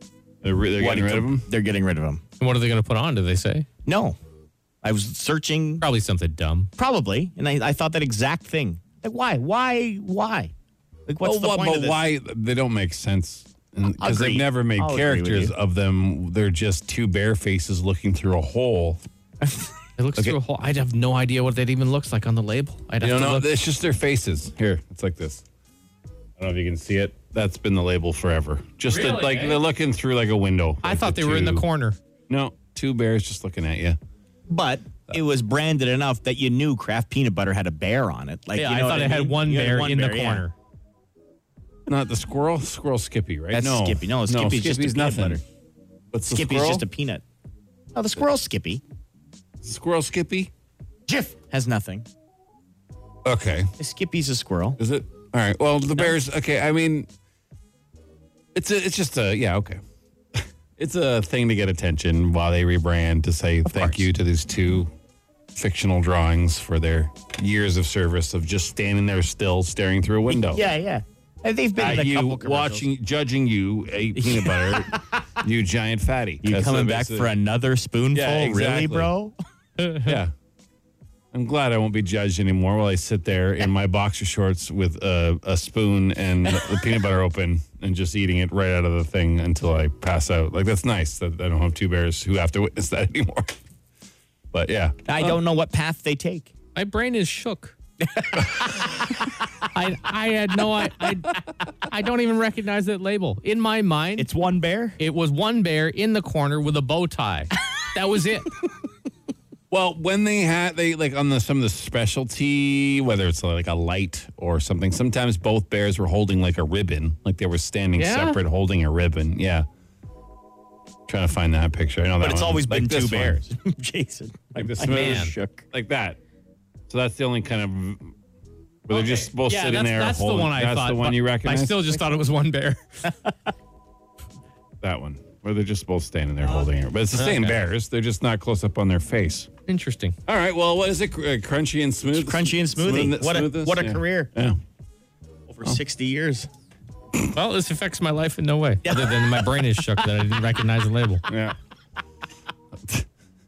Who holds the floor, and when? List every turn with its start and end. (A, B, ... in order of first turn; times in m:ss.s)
0:00.4-0:01.5 A
0:00.8-0:02.2 B
0:02.4-0:03.7 C
0:03.8-0:04.2 B
0:04.8-0:05.8 B
0:05.8-0:06.7 C
0:06.8-0:10.5 B
0:11.1-0:12.0 B
0:11.2-0:19.0 A
0:13.9-0:15.5 B
0:19.4-0:19.7 B
0:20.0-0:23.5 C
0:23.0-0:25.4 A
0:26.4-0:31.7 A
0:28.9-0:29.6 C
0:30.8-0:32.0 C
0:32.3-0:34.0 A
0:34.5-0:40.4 B
0:38.6-0:40.5 C
0:41.9-0:45.4 A
0:43.5-0:45.4 B
0:46.1-0:46.8 A
0:46.3-0:47.2 B
0:47.9-0:48.8 B
0:49.6-0:50.5 A
0:51.1-0:52.1 B
0:53.2-0:53.7 A
0:53.8-0:54.8 B
0:54.8-0:57.1 A
0:58.6-0:59.8 A
1:00.3-1:04.9 A
1:03.6-1:04.0 B
1:05.6-1:10.6 A
1:10.3-1:12.9 B
1:11.8-1:17.3 A
1:14.2-1:15.2 B
1:16.4-1:19.3 B
1:18.1-1:19.1 A
1:19.8-1:20.2 C
1:20.0-1:20.3 A
1:21.3-1:33.6 A
1:34.5-1:35.3 A
1:35.0-1:36.5 B
1:36.7-1:37.8 C
1:38.0-1:39.0 B
1:39.7-1:44.3 C
1:44.2-1:45.0 B
1:45.0-1:48.5 C
1:49.7-1:59.7 A
1:58.0-1:58.4 C
2:01.1-2:03.4 A
2:02.2-2:05.6 B
2:04.6-2:06.2 A
2:04.8-2:05.3 C
2:06.9-2:08.1 A
2:08.9-2:11.9 A
2:08.9-2:12.8 C
2:14.8-2:19.5 A
2:17.2-2:17.6 C
2:19.7-2:20.2 C
2:20.3-2:24.6 A
2:22.2-2:24.3 B
2:25.5-2:26.5 B
2:27.3-2:31.3 C
2:28.8-2:30.0 B
2:31.3-2:31.6 A
2:32.8-2:33.1 A